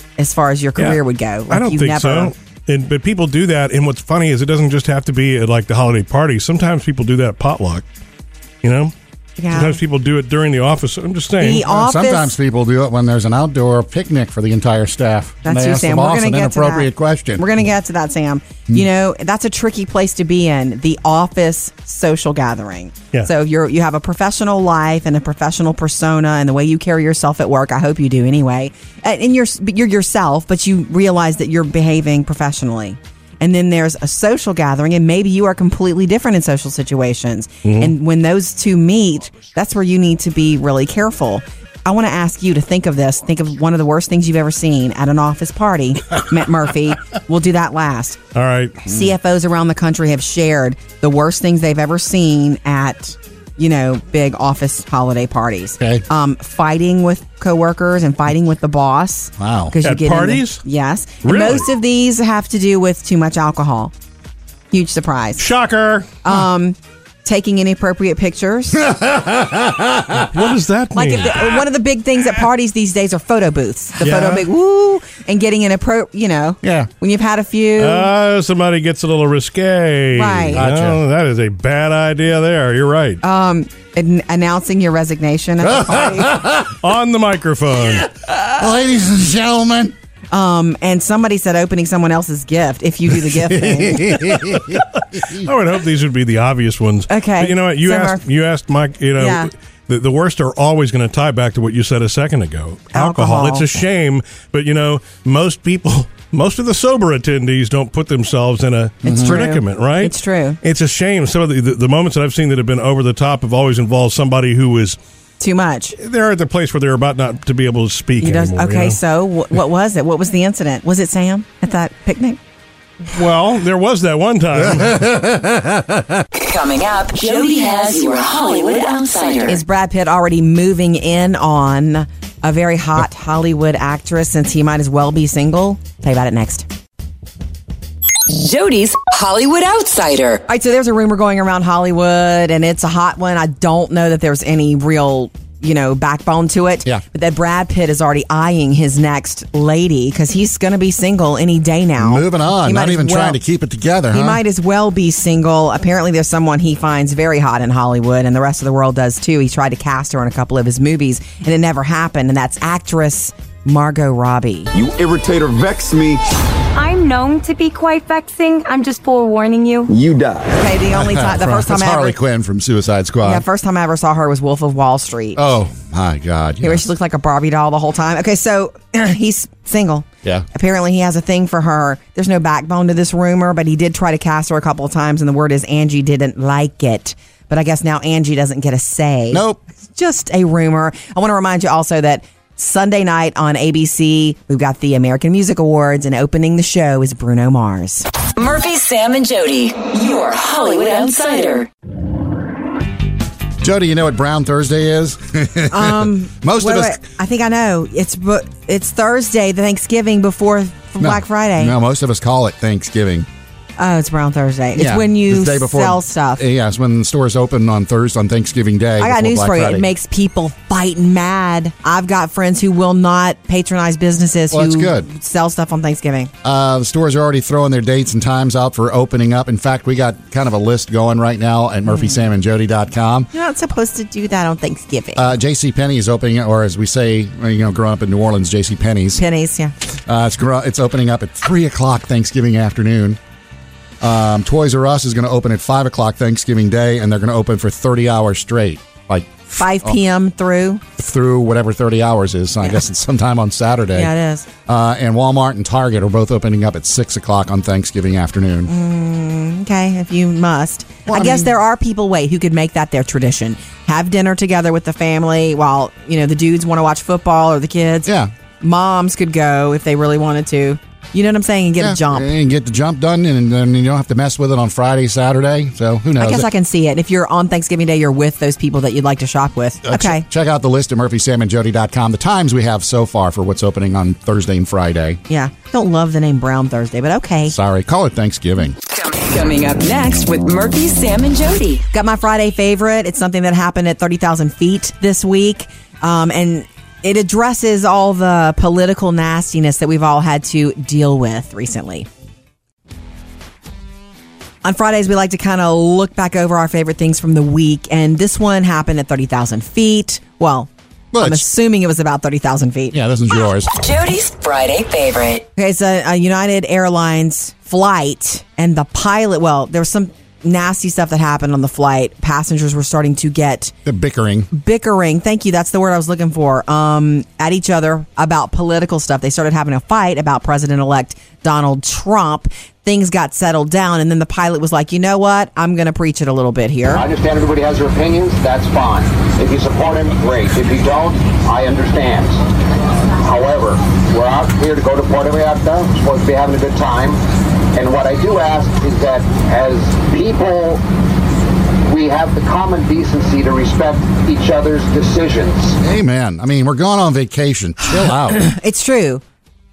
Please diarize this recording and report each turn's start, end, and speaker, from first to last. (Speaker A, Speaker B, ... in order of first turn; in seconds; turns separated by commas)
Speaker A: 0.2-2.3, Speaker B: 0.8-7.8, Speaker B: 8.6-8.9, Speaker A: 9.4-9.8, Speaker B: 9.5-11.6, Speaker A: 11.4-12.3, Speaker C: 11.6-17.4, Speaker A: 15.4-48.2, Speaker B: 37.6-37.9, Speaker B: 48.3-48.8, Speaker A: 48.9-63.9, Speaker C: 59.4-59.7, Speaker B: 59.8-60.6, Speaker B: 61.2-61.6, Speaker A: 64.7-65.4, Speaker B: 65.4-66.2, Speaker A: 66.2-68.8, Speaker C: 68.8-70.3, Speaker B: 70.2-71.6, Speaker A: 70.9-78.1, Speaker B: 74.0-74.5, Speaker C: 76.6-76.9, Speaker B: 77.8-83.2, Speaker A: 80.1-80.6, Speaker C: 80.5-81.0, Speaker A: 83.2-86.4, Speaker C: 85.6-86.8, Speaker B: 86.8-88.1, Speaker C: 87.8-89.9, Speaker A: 90.3-94.2, Speaker C: 93.2-95.5, Speaker B: 95.4-115.0, Speaker A: 97.1-98.2, Speaker A: 99.2-99.5, Speaker A: 102.9-103.7, Speaker C: 109.0-109.5, Speaker A: 109.0-110.6, Speaker A: 115.4-116.0, Speaker B: 116.0-119.0, Speaker A: 118.2-122.4, Speaker B: 123.1-125.1, Speaker C: 124.6-126.2, Speaker D: 126.3-129.6, Speaker A: 129.5-136.7, Speaker D: 138.3-140.4, Speaker A: 140.5-153.4, Speaker C: 152.0-154.4, Speaker A: 154.1-164.7, Speaker E: 164.7-166.2, Speaker F: 166.7-169.9, Speaker E: 169.9-170.5, Speaker A: 170.5-172.2, Speaker C: 170.9-173.4, Speaker A: 173.2-175.4, Speaker C: 175.3-176.8, Speaker A: 176.6-189.4, Speaker C: 189.3-189.6, Speaker A: 189.9-198.1, Speaker D: 198.3-201.7, Speaker C: 203.6-207.0, Speaker A: 205.7-211.7, Speaker C: 211.0-213.3, Speaker A: 213.8-216.4, Speaker C: 214.7-219.9, Speaker A: 219.0-226.3, Speaker C: 224.5-225.1, Speaker C: 226.4-233.3, Speaker A: 231.9-232.2, Speaker A: 233.3-235.3, Speaker C: 235.1-239.2, Speaker A: 239.2-239.7, Speaker C: 240.1-243.2, Speaker C: 244.0-250.0, Speaker A: 249.5-250.8, Speaker C: 251.0-254.1, Speaker A: 253.9-254.4, Speaker C: 254.7-258.7, Speaker A: 258.7-268.1, Speaker C: 261.1-261.5, Speaker C: 268.0-268.3, Speaker A: 268.6-272.3, Speaker C: 271.8-276.5, Speaker A: 276.2-280.2, Speaker C: 279.8-285.2, Speaker A: 285.3-287.5, Speaker C: 287.5-288.8, Speaker D: 288.9-291.8, Speaker A: 291.9-302.1, Speaker A: 304.6-313.0, Speaker C: 311.1-311.4, Speaker C: 312.9-313.7, Speaker D: 313.7-315.4, Speaker A: 315.6-323.7, Speaker C: 323.8-324.5, Speaker A: 324.5-337.0, Speaker G: 336.9-342.4, Speaker G: 343.2-347.2, Speaker G: 347.7-350.8, Speaker G: 351.9-355.8, Speaker C: 355.8-358.5, Speaker A: 358.3-359.2